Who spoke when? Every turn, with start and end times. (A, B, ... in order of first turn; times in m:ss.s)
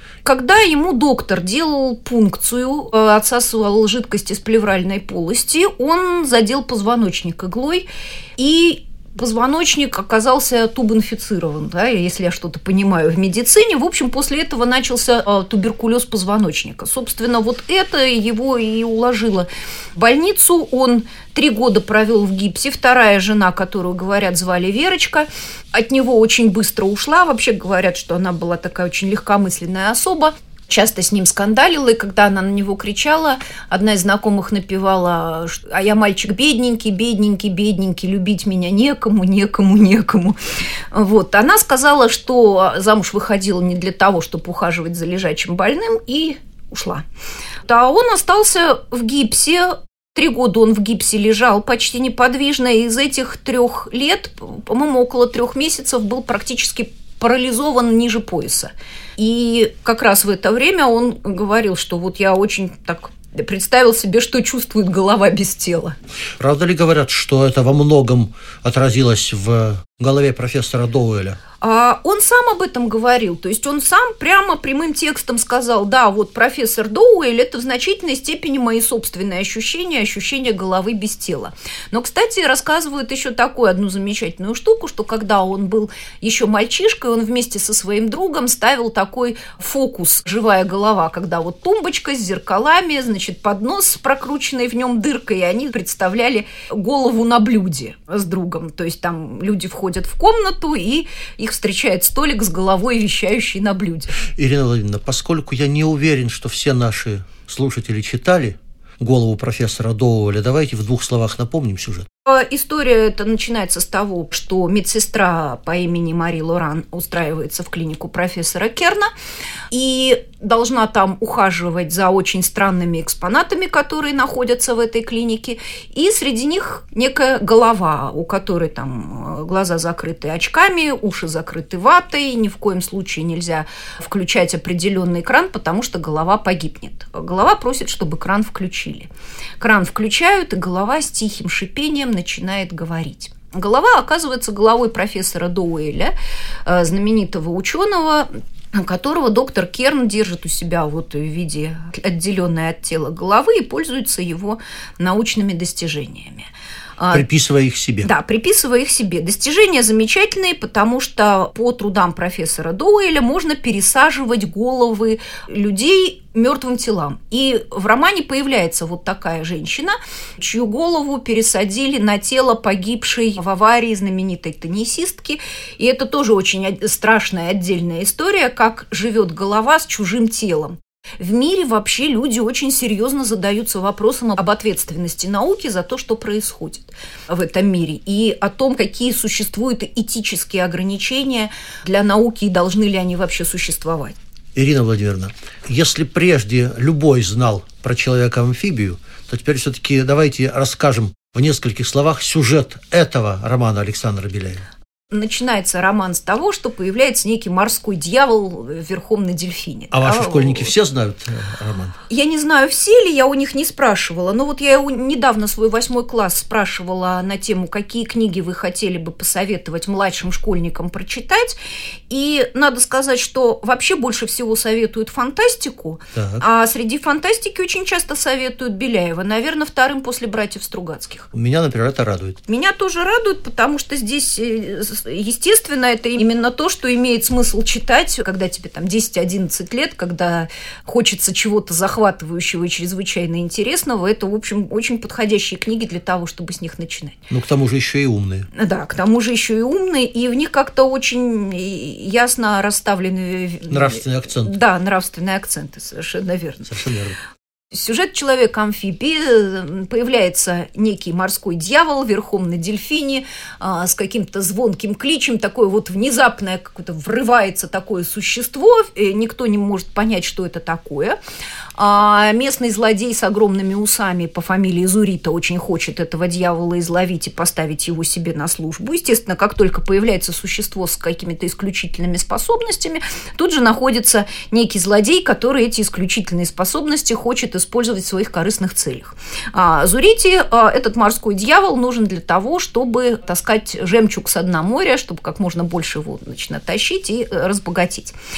0:00.2-0:07.9 A
0:08.4-0:40.4 A
0:40.9-0:47.0 A
0:47.6-1:06.0 A
1:06.4-1:11.4 B
1:11.6-1:44.2 A
1:44.2-1:52.1 B
1:52.2-1:59.1 A
1:59.7-2:26.1 A
2:26.6-2:37.2 A
2:37.1-2:38.1 B
2:38.0-3:14.2 A
3:14.5-3:24.6 B
3:25.1-3:30.7 A
3:29.9-3:32.0 B
3:32.1-3:41.6 A
3:42.1-3:51.3 A
3:46.1-3:46.4 B
3:51.3-3:52.4 B
3:52.5-4:07.2 A
4:07.3-4:08.5 B
4:08.5-4:16.7 A
4:13.7-4:14.5 B
4:16.7-4:17.2 B
4:17.7-4:31.2 A
4:31.8-4:58.2 A